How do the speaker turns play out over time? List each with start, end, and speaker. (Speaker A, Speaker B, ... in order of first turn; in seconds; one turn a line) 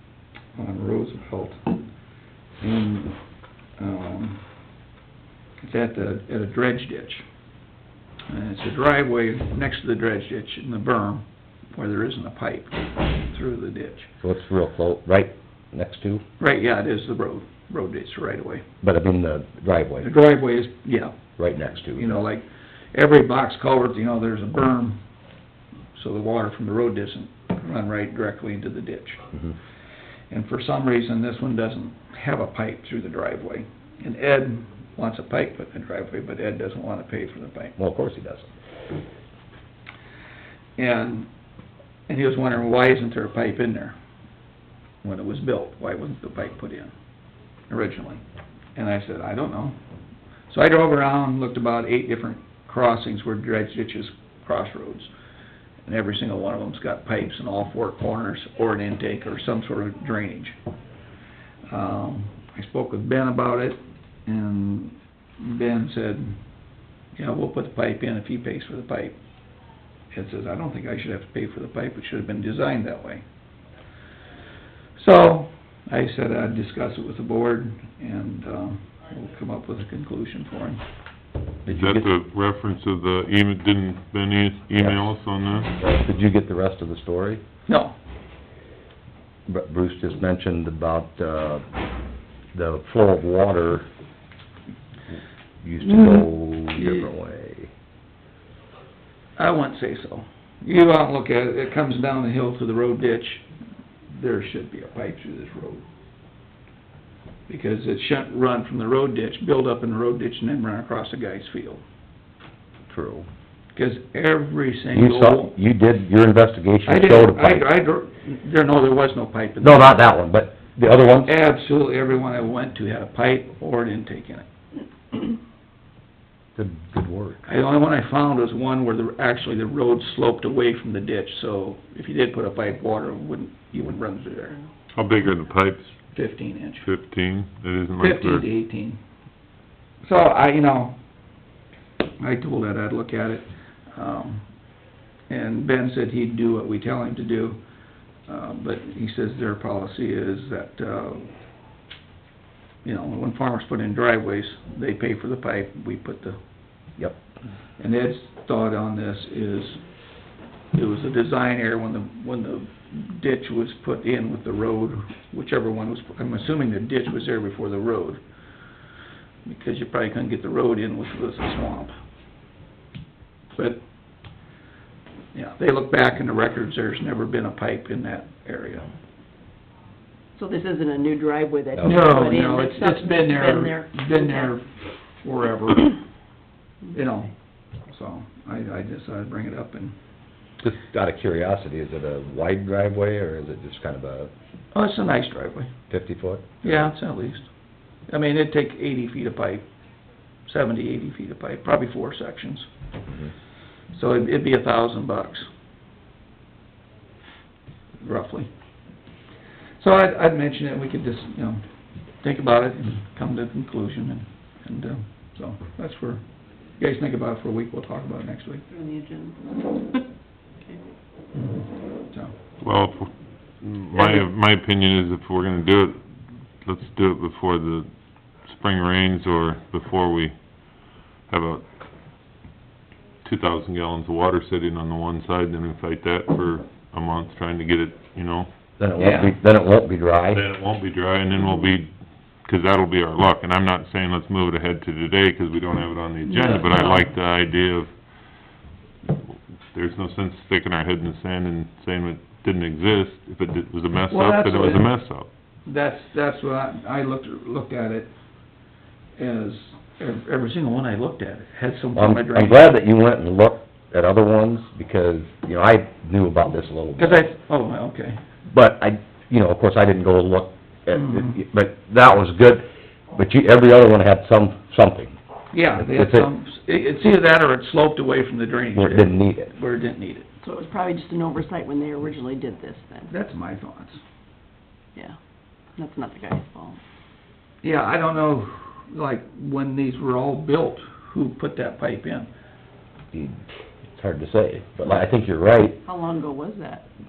Speaker A: 0.6-1.7
Speaker A: 2.6-3.2
Speaker A: 3.8-4.4
Speaker A: 5.6-7.2
Speaker A: 8.3-14.1
Speaker B: 14.2-16.2
Speaker A: 16.4-18.6
Speaker B: 18.8-20.1
Speaker A: 20.0-21.2
Speaker B: 21.4-22.2
Speaker A: 21.9-25.0
Speaker A: 25.9-29.2
Speaker A: 30.3-37.7
Speaker B: 37.8-38.5
Speaker A: 40.8-41.3
Speaker A: 42.1-44.0
Speaker A: 45.0-46.9
Speaker A: 47.7-48.2
Speaker A: 48.8-49.8
Speaker A: 50.5-55.1
Speaker A: 55.9-60.6
Speaker A: 61.7-66.4
Speaker A: 67.2-69.2
Speaker A: 70.1-73.2
Speaker A: 75.0-80.8
Speaker A: 81.6-82.1
Speaker C: 81.7-85.7
Speaker B: 84.8-85.1
Speaker B: 85.8-87.4
Speaker A: 87.7-88.0
Speaker B: 89.5-91.6
Speaker B: 92.5-93.8
Speaker B: 95.6-97.7
Speaker A: 96.8-97.0
Speaker A: 99.4-103.5
Speaker A: 104.1-105.8
Speaker A: 107.5-111.8
Speaker B: 112.9-113.3
Speaker A: 113.7-115.5
Speaker B: 114.9-117.7
Speaker A: 116.8-120.0
Speaker B: 119.6-121.3
Speaker A: 121.2-124.5
Speaker B: 126.5-127.4
Speaker A: 127.4-134.6
Speaker C: 134.9-136.0
Speaker A: 136.1-136.9
Speaker C: 136.8-138.5
Speaker A: 138.0-139.0
Speaker A: 140.0-140.9
Speaker A: 142.2-144.5
Speaker A: 145.3-147.6
Speaker A: 148.3-151.3
Speaker A: 152.8-156.4
Speaker A: 157.8-159.8
Speaker A: 160.7-168.2
Speaker A: 169.4-171.9
Speaker A: 173.6-173.8
Speaker A: 175.3-178.9
Speaker D: 180.3-184.6
Speaker B: 181.7-182.3
Speaker A: 181.8-186.0
Speaker A: 186.9-187.3
Speaker A: 187.9-189.9
Speaker B: 190.6-194.3
Speaker A: 194.7-195.7
Speaker B: 195.9-196.9
Speaker A: 196.6-197.5
Speaker A: 198.1-199.6
Speaker A: 200.4-202.7
Speaker A: 203.9-205.5
Speaker A: 208.0-208.5
Speaker A: 209.8-211.6
Speaker A: 212.2-216.2
Speaker A: 216.8-218.6
Speaker D: 218.7-220.0
Speaker A: 221.3-222.3
Speaker C: 222.6-226.0
Speaker C: 226.6-227.9
Speaker C: 228.4-230.7
Speaker C: 231.3-231.6
Speaker C: 233.2-238.5
Speaker B: 238.8-240.4
Speaker A: 239.0-239.3
Speaker C: 240.3-241.9
Speaker C: 242.4-247.9
Speaker D: 246.2-247.0
Speaker C: 249.1-255.3
Speaker A: 254.1-254.9
Speaker A: 255.7-258.1
Speaker A: 259.2-262.7
Speaker B: 261.9-267.3
Speaker A: 267.0-268.2
Speaker B: 268.5-275.2
Speaker A: 270.9-271.3
Speaker A: 275.5-280.3
Speaker B: 275.8-276.3
Speaker B: 278.7-279.5
Speaker D: 280.4-283.1
Speaker A: 283.1-284.0
Speaker D: 285.7-286.8
Speaker A: 287.6-292.3
Speaker B: 293.1-295.8
Speaker D: 295.8-296.8